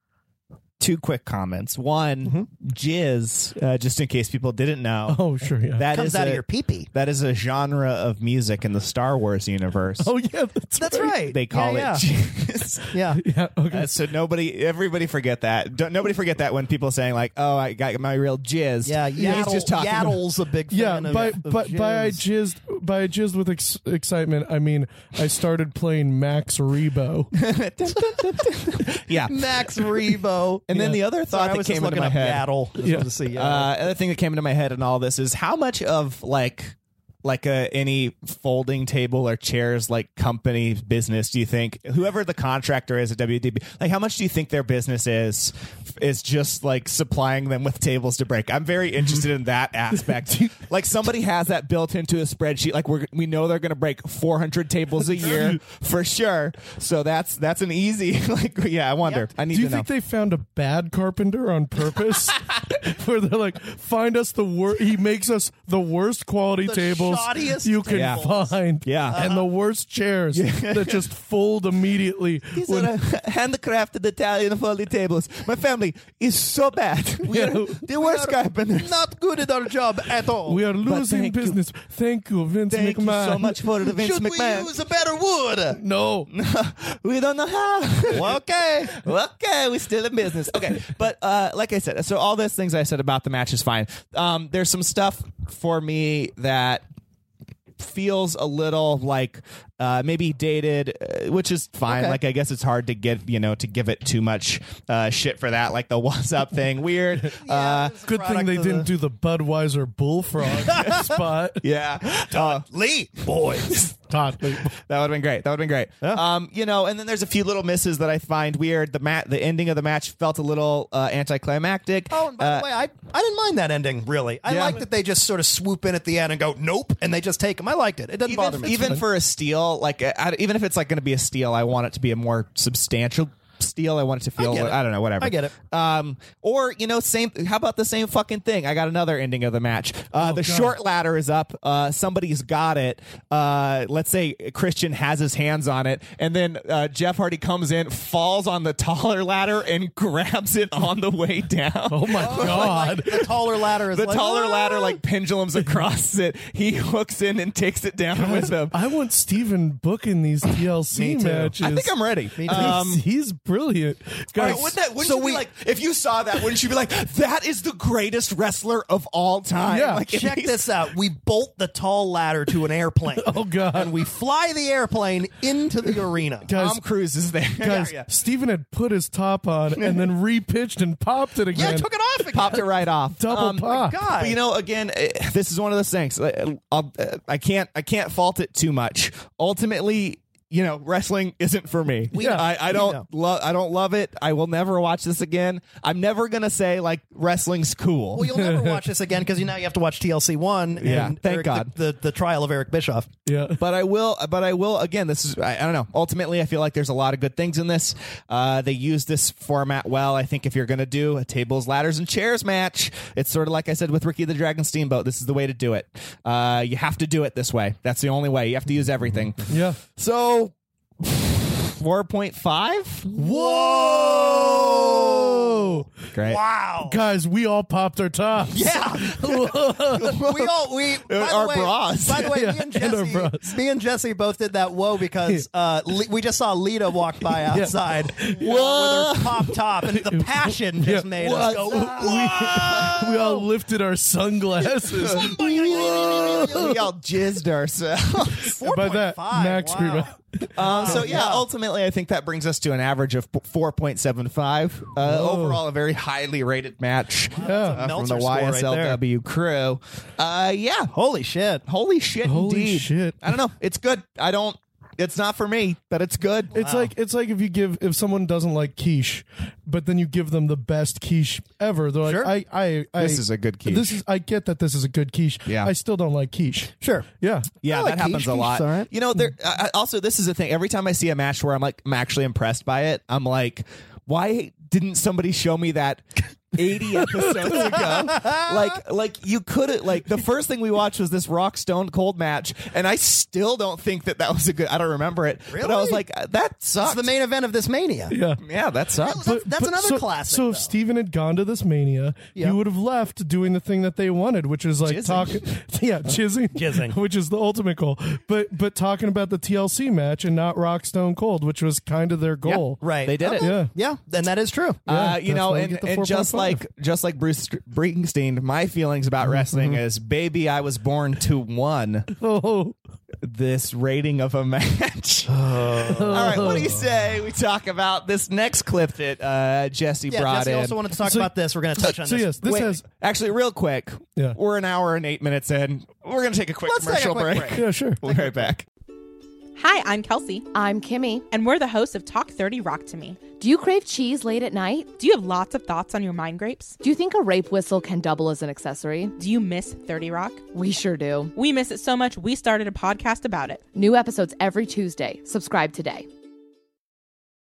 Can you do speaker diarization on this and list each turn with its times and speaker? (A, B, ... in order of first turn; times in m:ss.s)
0:00.8-0:05.2 A
0:05.1-0:05.9 B
0:05.8-0:06.4 A
0:05.9-0:06.9 C
0:06.9-0:10.1 A
0:10.0-0:11.2 B
0:10.8-0:12.0 C
0:11.3-0:12.9 A
0:12.9-0:13.2 C
0:13.2-0:13.9 B
0:13.7-0:20.2 A
0:18.8-0:22.2 C
0:20.7-0:27.3 B
0:27.3-0:29.9 A
0:29.2-0:33.7 C
0:30.7-0:32.4 A
0:32.8-0:33.1 B
0:33.4-0:59.9 A
0:50.3-0:50.5 B
0:55.1-0:55.6 B
0:59.0-0:59.3 C
0:59.5-1:12.9 B
1:06.6-1:08.6 C
1:07.9-1:08.2 A
1:08.8-1:09.2 A
1:09.1-1:09.4 C
1:10.3-1:11.0 A
1:12.5-1:19.0 A
1:17.3-1:17.8 B
1:18.0-1:20.6 C
1:20.4-1:23.6 B
1:20.8-1:21.6 A
1:22.7-1:24.7 A
1:23.8-1:25.8 C
1:25.7-1:26.3 B
1:26.3-1:28.4 A
1:28.1-1:29.0 C
1:28.9-1:36.8 A
1:37.8-1:48.0 A
1:41.9-1:42.2 C
1:47.4-1:48.9 C
1:48.1-1:51.6 B
1:50.6-1:51.1 C
1:51.6-1:52.6 A
1:52.3-1:53.8 C
1:54.1-1:54.7 B
1:54.7-2:02.7 A
2:02.1-2:09.0 C
2:04.5-2:04.8 A
2:08.3-2:38.8 A
2:08.6-2:09.0 B
2:14.4-2:15.5 C
2:20.2-2:20.8 B
2:31.9-2:33.2 B
2:32.1-2:35.0 C
2:38.1-2:41.9 B
2:40.9-2:41.5 C
2:41.5-2:43.0 A
2:42.4-2:42.8 C
2:42.5-2:44.7 B
2:44.4-2:50.6 A
2:44.4-2:45.5 C
2:49.7-2:50.0 B
2:50.0-2:56.5 C
2:53.2-2:53.9 B
2:56.4-2:56.8 B
2:56.6-2:58.0 A
2:57.6-3:01.9 B
2:59.8-3:00.1 A
3:01.5-3:02.6 C
3:02.3-3:18.2 A
3:03.1-3:04.0 B
3:03.6-3:04.4 C
3:12.1-3:13.0 C
3:18.1-3:23.1 C
3:18.2-3:18.8 B
3:20.8-3:21.7 A
3:23.3-3:23.6 B
3:23.6-3:43.1 A
3:39.5-3:39.8 B
3:43.1-3:45.9 B
3:43.1-3:47.0 C
3:46.1-3:46.4 A
3:46.8-3:50.2 B
3:48.5-4:03.4 C
3:50.0-3:50.5 A
3:51.0-3:52.3 A
3:52.2-3:53.5 B
3:57.5-3:58.4 B
3:58.3-3:59.4 A
4:00.0-4:06.8 B
4:01.4-4:03.2 A
4:04.9-4:08.6 A
4:05.0-4:06.8 C
4:08.3-4:11.4 C
4:08.6-4:11.0 B
4:10.6-4:20.9 A
4:15.0-4:15.6 B
4:17.3-4:19.0 C
4:17.4-4:17.8 B
4:20.9-4:21.6 C
4:21.7-4:26.6 A
4:22.2-4:23.3 B
4:26.5-4:26.9 C
4:26.6-4:37.5 B
4:32.0-4:32.3 C
4:33.0-4:34.0 A
4:35.4-4:35.7 A
4:36.8-4:37.1 C
4:37.6-4:57.1 A
4:37.6-4:38.9 C
4:47.2-4:47.8 B
4:47.5-4:48.8 C
4:55.5-4:56.0 C
4:56.8-4:58.1 C
4:58.1-4:58.4 B
4:58.4-4:59.2 A
4:59.0-5:00.7 C
4:59.1-5:13.7 B
5:04.8-5:05.4 A
5:06.5-5:07.0 C
5:12.4-5:13.5 A
5:12.8-5:14.8 C
5:14.9-5:22.1 A
5:14.9-5:16.6 B
5:22.1-5:22.8 B
5:23.2-5:30.8 A
5:25.4-5:26.7 C
5:25.8-5:26.8 B
5:30.1-5:32.6 C
5:31.9-5:32.8 B
5:32.4-5:38.6 A
5:36.6-5:38.5 C
5:37.6-5:38.0 B
5:39.6-5:40.5 D
5:40.5-5:41.2 E
5:41.3-5:43.3 D
5:43.3-5:44.9 E
5:45.0-5:46.8 D
5:46.8-5:49.1 E
5:49.2-5:50.4 D
5:50.5-5:51.3 E
5:51.4-5:53.6 D
5:53.8-5:56.0 E